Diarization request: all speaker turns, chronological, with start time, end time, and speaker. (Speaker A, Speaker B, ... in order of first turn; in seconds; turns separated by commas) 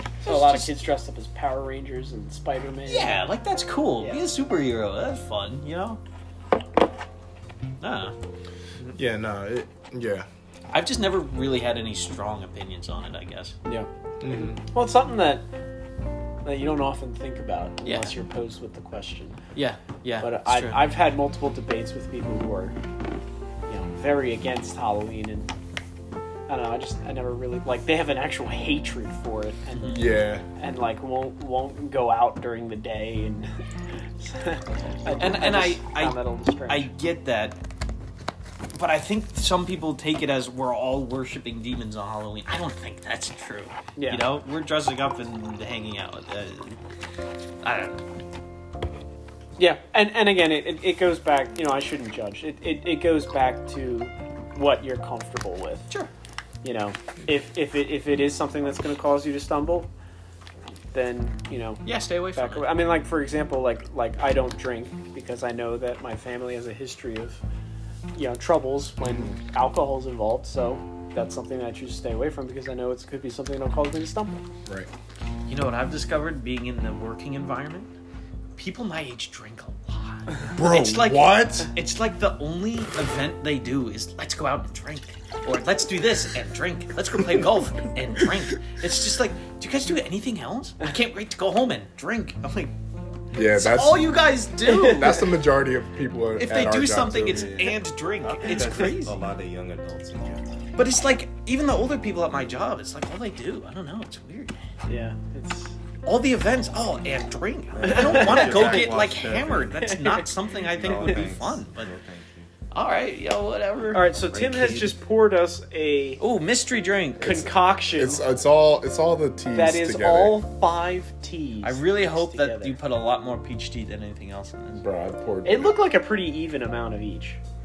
Speaker A: 0.2-3.2, Speaker B: 0.2-0.8, Speaker B: 2.9-6.0, Speaker A: 4.0-4.2, Speaker B: 7.8-8.1, Speaker C: 8.9-10.3, Speaker B: 10.7-13.6, Speaker A: 13.6-15.5, Speaker C: 14.2-14.6, Speaker A: 16.4-19.4, Speaker B: 17.8-18.1, Speaker B: 19.5-20.8, Speaker A: 20.2-22.8, Speaker A: 23.6-25.5, Speaker A: 26.5-33.5, Speaker C: 29.8-30.4, Speaker A: 34.2-36.9, Speaker B: 35.1-37.6, Speaker B: 38.7-46.8, Speaker A: 44.0-44.2, Speaker B: 47.6-48.0, Speaker A: 49.6-55.9, Speaker A: 56.6-59.9, Speaker A: 60.9-67.4, Speaker B: 61.8-62.7, Speaker A: 68.1-74.4, Speaker C: 69.0-69.4, Speaker B: 75.5-77.9, Speaker B: 78.5-92.7, Speaker C: 80.5-81.7, Speaker C: 93.3-94.1, Speaker B: 93.3-95.3, Speaker C: 94.7-97.7, Speaker B: 96.4-99.2, Speaker D: 97.4-97.7, Speaker D: 98.3-100.4, Speaker B: 100.8-104.6, Speaker A: 104.8-105.8, Speaker B: 106.0-111.9, Speaker D: 107.7-112.5, Speaker A: 107.9-108.9, Speaker A: 109.9-110.2, Speaker A: 110.9-111.2, Speaker B: 112.7-114.1, Speaker A: 113.9-116.2, Speaker D: 114.2-115.0, Speaker B: 116.2-117.5, Speaker A: 117.2-118.2, Speaker C: 118.0-120.4, Speaker A: 119.5-122.8, Speaker B: 121.6-124.8, Speaker C: 124.7-125.7, Speaker A: 125.4-127.4